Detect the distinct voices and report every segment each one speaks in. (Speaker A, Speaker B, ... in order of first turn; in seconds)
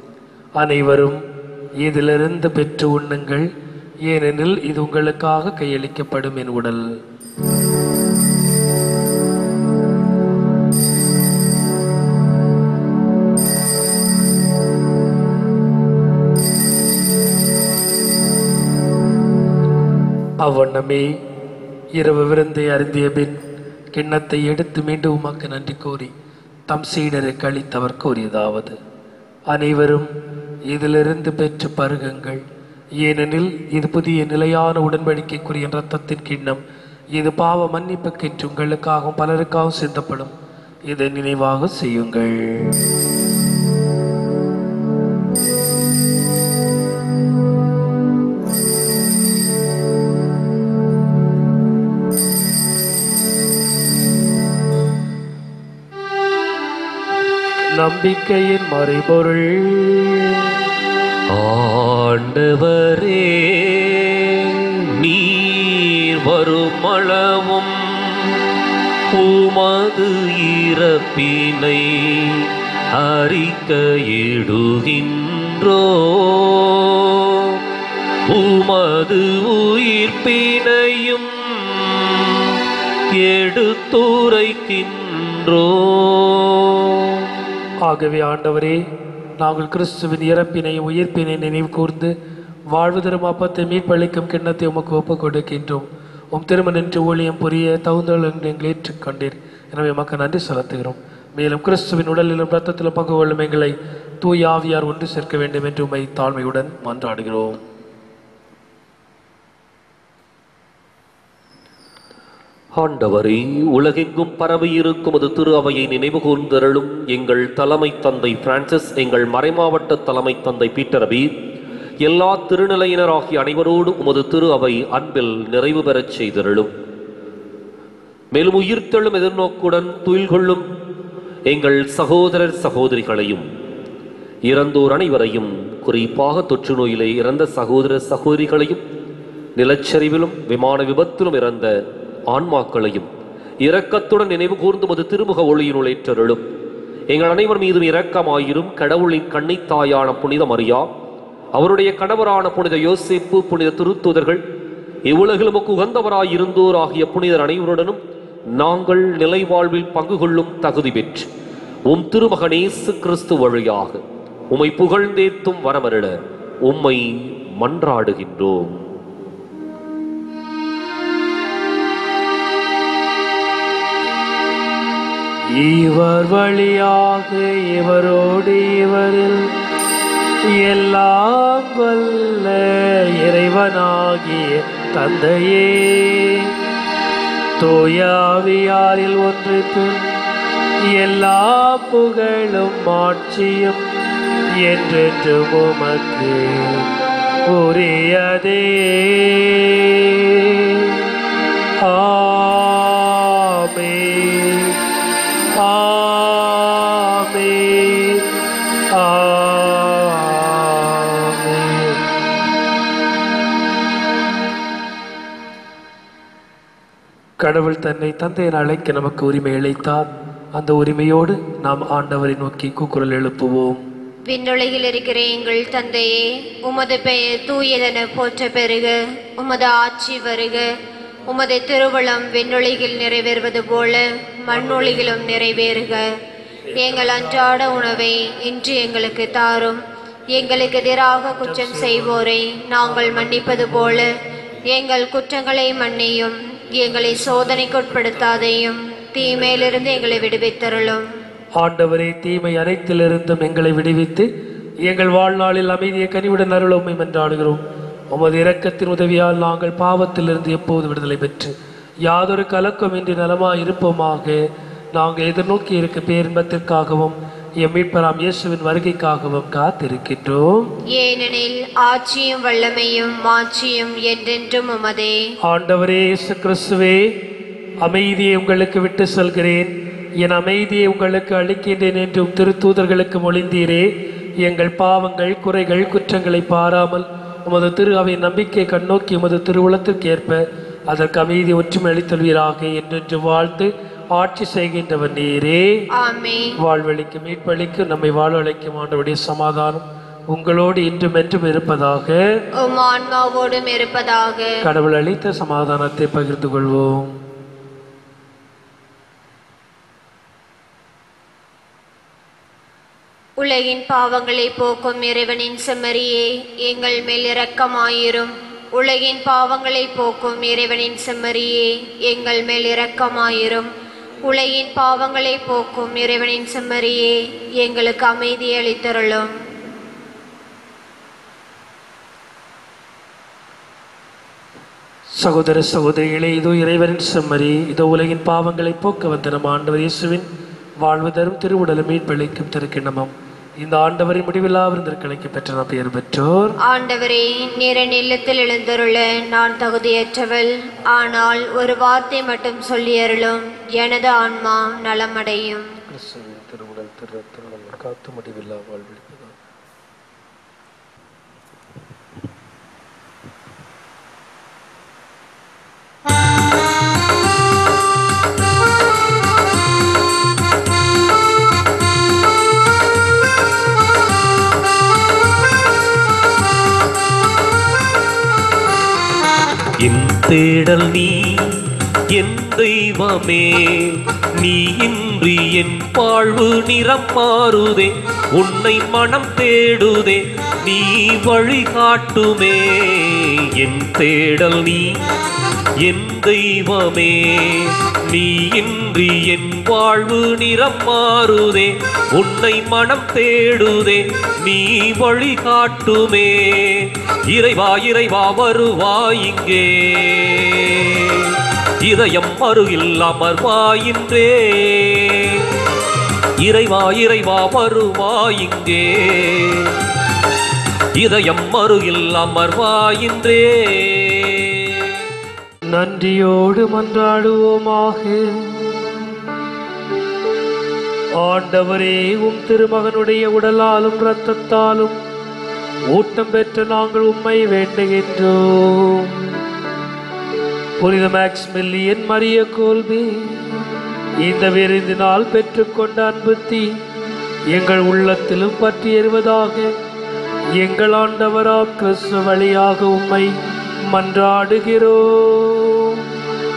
Speaker A: 0.6-1.2, 1.8-3.5, 4.1-6.9, 20.4-21.2, 22.0-23.4, 23.9-26.1, 26.7-28.8, 29.5-30.1, 30.7-32.4, 33.0-36.6, 37.1-40.4, 40.9-42.8, 57.8-60.6, 87.8-88.8, 89.4-92.1, 92.7-107.6, 175.6-179.5, 180.6-186.6, 187.6-190.1, 190.9-193.8, 194.6-196.9, 197.5-201.1, 201.8-204.8, 205.6-208.3, 208.9-212.0, 217.4-223.8, 234.5-235.1, 236.8-237.3, 241.5-242.3, 242.9-244.1, 251.6-254.3, 254.8-261.5, 262.1-264.4, 265.0-270.7, 275.5-277.1, 277.8-283.9, 284.4-295.8, 296.6-302.2, 304.6-307.1, 335.2-340.3, 340.8-346.6, 355.9-359.4, 425.7-429.1, 431.2-435.0, 435.9-439.4, 440.8-443.4, 444.2-446.7, 447.5-449.7, 450.6-453.3, 453.9-456.1
Speaker B: 61.3-68.4, 69.1-77.6, 78.3-82.6, 83.2-87.3, 112.8-121.3, 122.0-126.7, 128.3-130.7, 131.5-133.5, 134.5-138.8, 139.6-141.8, 142.3-143.1, 143.6-146.4, 147.1-150.9, 151.6-154.4, 155.1-158.0, 158.6-161.3, 161.9-166.2, 166.7-168.8, 379.8-395.0, 395.8-415.5, 416.4-419.8, 421.0-425.0
Speaker C: 224.3-230.7, 231.3-236.1, 236.8-239.8, 240.3-244.1, 244.7-251.1, 270.9-275.3, 295.9-296.6, 302.6-304.6, 313.4-323.7, 324.2-329.3, 346.6-355.7